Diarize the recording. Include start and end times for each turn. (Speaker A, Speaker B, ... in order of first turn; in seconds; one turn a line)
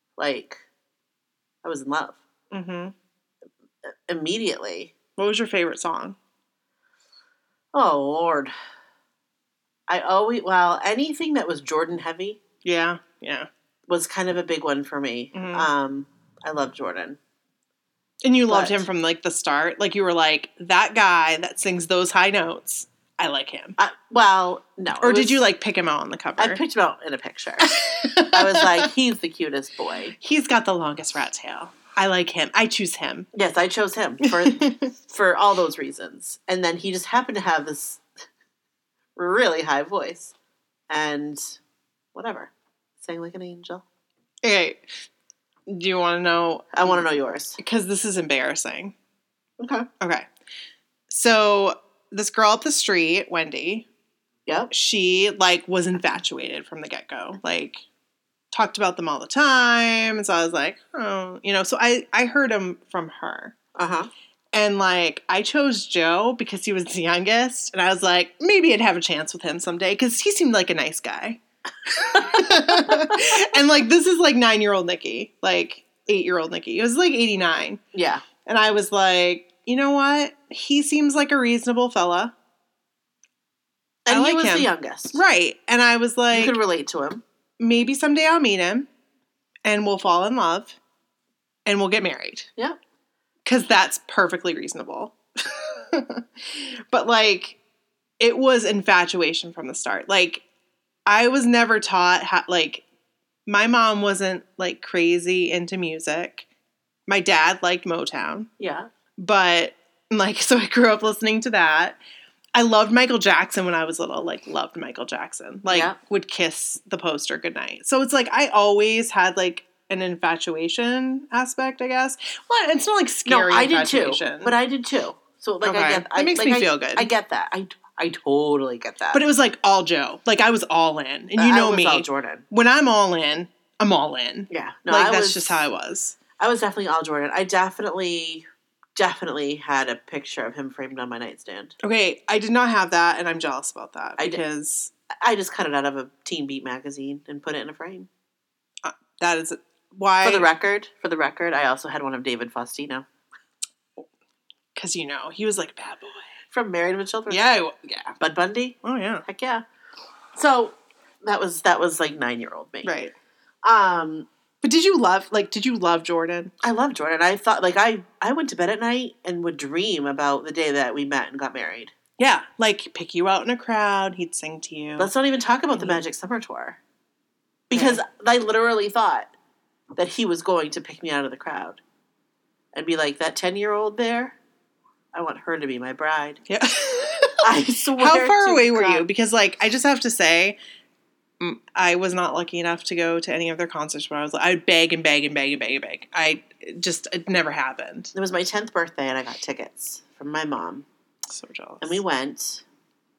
Speaker A: 0.2-0.6
Speaker A: 1.6-2.2
Speaker B: 2.5-2.9
Speaker A: 4.1-4.9
Speaker B: 5.2-6.2
Speaker A: 7.7-8.5
Speaker A: 9.9-12.4
Speaker B: 12.6-13.5
Speaker A: 13.9-17.2
Speaker B: 15.3-15.7
Speaker B: 18.2-23.8
Speaker A: 18.5-18.8
Speaker A: 23.8-25.4
Speaker B: 25.0-26.6
Speaker A: 26.4-27.7
Speaker B: 27.6-28.9
Speaker A: 28.3-30.1
Speaker B: 30.2-33.3
Speaker A: 33.3-38.0
Speaker B: 34.2-34.9
Speaker A: 39.1-40.3
Speaker A: 40.9-41.6
Speaker A: 42.1-43.8
Speaker B: 44.4-44.8
Speaker B: 45.7-47.0
Speaker A: 46.7-47.6
Speaker B: 47.6-48.9
Speaker A: 49.6-49.9
Speaker B: 50.0-50.2
Speaker B: 51.1-53.9
Speaker A: 54.5-54.7
Speaker B: 54.7-57.8
Speaker B: 58.5-63.5
Speaker A: 63.8-64.1
Speaker B: 64.5-77.8
Speaker A: 72.0-73.4
Speaker A: 77.9-78.2
Speaker B: 78.4-82.3
Speaker A: 84.0-85.2
Speaker B: 84.1-86.6
Speaker A: 86.3-87.2
Speaker B: 87.6-88.9
Speaker B: 89.6-90.8
Speaker B: 91.7-92.5
Speaker B: 93.4-97.6
Speaker B: 98.2-100.4
Speaker B: 101.0-102.8
Speaker B: 103.5-106.5
Speaker B: 107.1-108.5
Speaker A: 108.6-108.9
Speaker B: 109.2-112.0
Speaker B: 112.5-124.5
Speaker A: 115.7-116.0
Speaker A: 123.2-129.2
Speaker B: 125.6-127.1
Speaker B: 129.1-136.2
Speaker A: 131.4-132.4
Speaker A: 134.5-135.6
Speaker A: 136.4-141.7
Speaker B: 141.8-144.9
Speaker A: 145.2-148.1
Speaker B: 148.8-150.5
Speaker A: 150.2-153.1
Speaker B: 154.7-156.2
Speaker A: 156.5-157.4
Speaker B: 157.3-158.1
Speaker A: 158.2-159.6
Speaker B: 158.8-159.2
Speaker A: 160.3-162.9
Speaker B: 162.8-163.1
Speaker A: 163.6-164.3
Speaker B: 164.6-166.5
Speaker A: 166.6-171.9
Speaker B: 172.2-175.1
Speaker A: 175.0-176.8
Speaker B: 175.7-176.0
Speaker A: 177.7-179.3
Speaker B: 177.7-178.0
Speaker A: 180.0-181.8
Speaker A: 182.7-184.4
Speaker A: 185.1-186.4
Speaker B: 186.5-187.4
Speaker A: 187.4-189.0
Speaker B: 187.9-190.6
Speaker B: 191.4-198.1
Speaker A: 198.1-200.8
Speaker B: 201.3-202.0
Speaker A: 201.8-202.6